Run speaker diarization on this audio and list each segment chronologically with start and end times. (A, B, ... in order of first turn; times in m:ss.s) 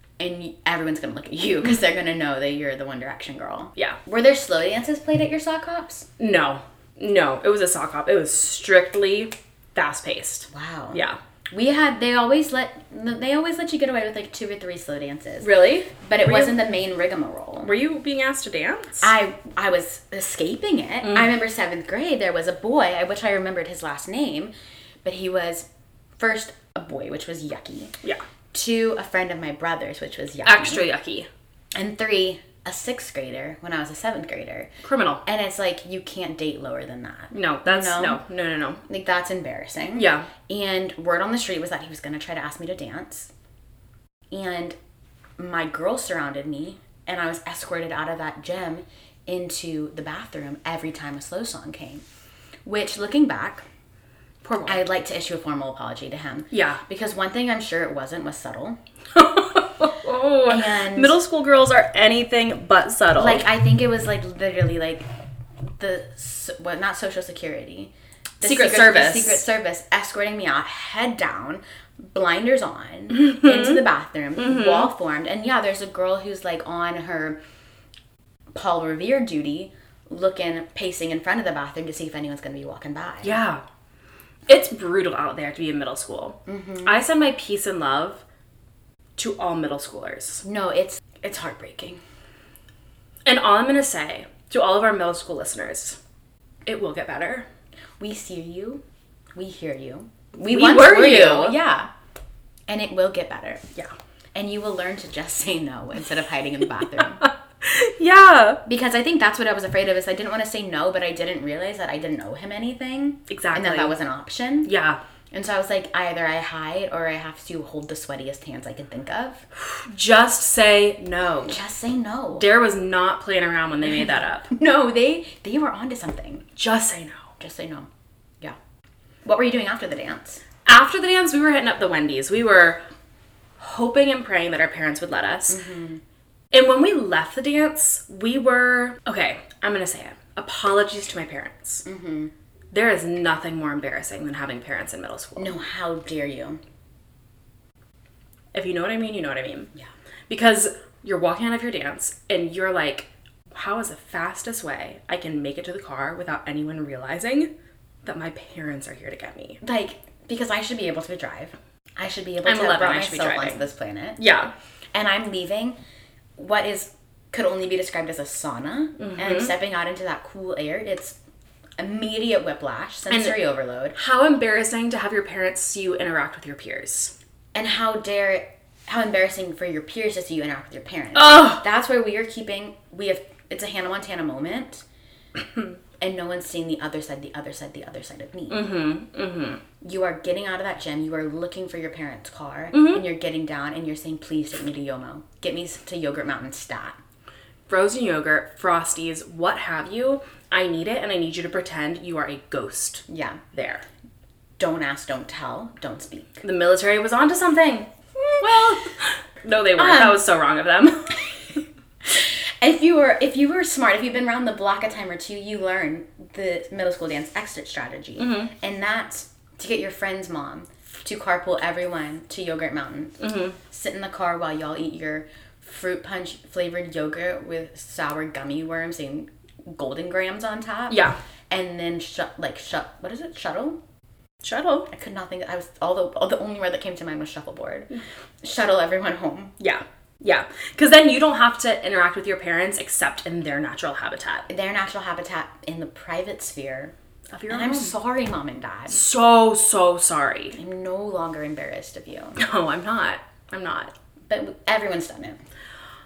0:00.2-0:06.1 A
0:06.2-0:11.2 B
0:10.5-0:17.7 A
0:15.4-0:16.6 B
0:17.6-0:19.1 B
0:19.0-0:24.5 A
0:21.0-0:21.3 B
0:25.0-0:25.7 A
0:26.2-0:27.9 A
0:28.5-0:30.8 A
0:30.4-0:31.3 B
0:31.7-0:34.7 A
0:34.8-0:35.2 B
0:35.2-0:38.2 A
0:37.3-0:38.8 B
0:38.8-0:43.3 A
0:40.0-0:40.3 B
0:44.3-0:44.8 A
0:45.4-0:52.0 A
0:52.6-0:53.6 A
0:54.4-0:54.8 B
0:54.6-0:58.8 A
0:56.5-0:56.8 B
0:59.1-1:03.4 B
1:00.4-1:01.2 A
1:03.2-1:05.1 A
1:05.8-1:17.4 A
1:08.4-1:09.4 B
1:13.1-1:13.8 B
1:14.4-1:14.9 B
1:18.5-1:23.3 A
1:23.2-1:23.6 B
1:24.5-1:28.2 B
1:26.4-1:27.0 A
1:29.2-1:30.4 B
1:30.4-1:32.0 A
1:33.2-1:36.0 B
1:36.6-1:37.5 B
1:38.0-1:38.8 A
1:39.3-1:41.9 A
1:40.4-1:41.6 B
1:42.7-1:43.6 A
1:44.3-1:47.2 A
1:47.2-1:48.6 B
1:48.6-1:54.7 A
1:53.3-1:54.0 B
1:54.6-1:55.0 B
1:55.3-1:59.4 A
1:59.6-2:01.6 B
2:01.5-2:02.5 A
2:02.4-2:04.5 B
2:03.9-2:06.4 A
2:06.6-2:07.3 B
2:07.4-2:07.9 A
2:09.2-2:10.4 A
2:10.6-2:12.8 B
2:13.6-2:15.6 B
2:15.5-2:16.0 A
2:16.5-2:21.8 B
2:21.8-2:22.3 A
2:22.7-2:25.5 B
2:25.4-2:26.6 A
2:28.5-2:29.7 B
2:30.3-2:37.5 B
2:38.0-2:39.6 B
2:39.6-2:44.2 A
2:42.4-2:43.6 B
2:44.2-2:44.5 B
2:44.9-2:45.8 A
2:46.4-2:51.2 A
2:49.0-2:49.5 B
2:51.8-2:54.0 A
2:53.1-2:53.4 B
2:53.9-2:57.1 B
2:57.5-3:04.8 A
3:01.1-3:01.6 B
3:06.0-3:08.7 A
3:08.5-3:09.6 B
3:09.8-3:17.0 A
3:12.7-3:13.0 B
3:17.7-3:23.8 B
3:23.1-3:23.4 A
3:24.6-3:26.4 A
3:26.4-3:27.9 B
3:28.4-3:31.3 B
3:29.8-3:30.2 A
3:32.0-3:53.8 A
3:38.2-3:38.5 B
3:43.2-3:43.6 B
3:50.9-3:51.2 B
3:54.4-3:54.9 B
3:54.9-3:57.9 A
3:58.4-3:59.5 A
3:59.6-4:04.5 B
4:04.5-4:06.9 A
4:07.3-4:07.9 B
4:07.5-4:09.0 A
4:08.9-4:10.6 B
4:10.5-4:12.4 A
4:12.4-4:13.9 B
4:14.3-4:15.4 A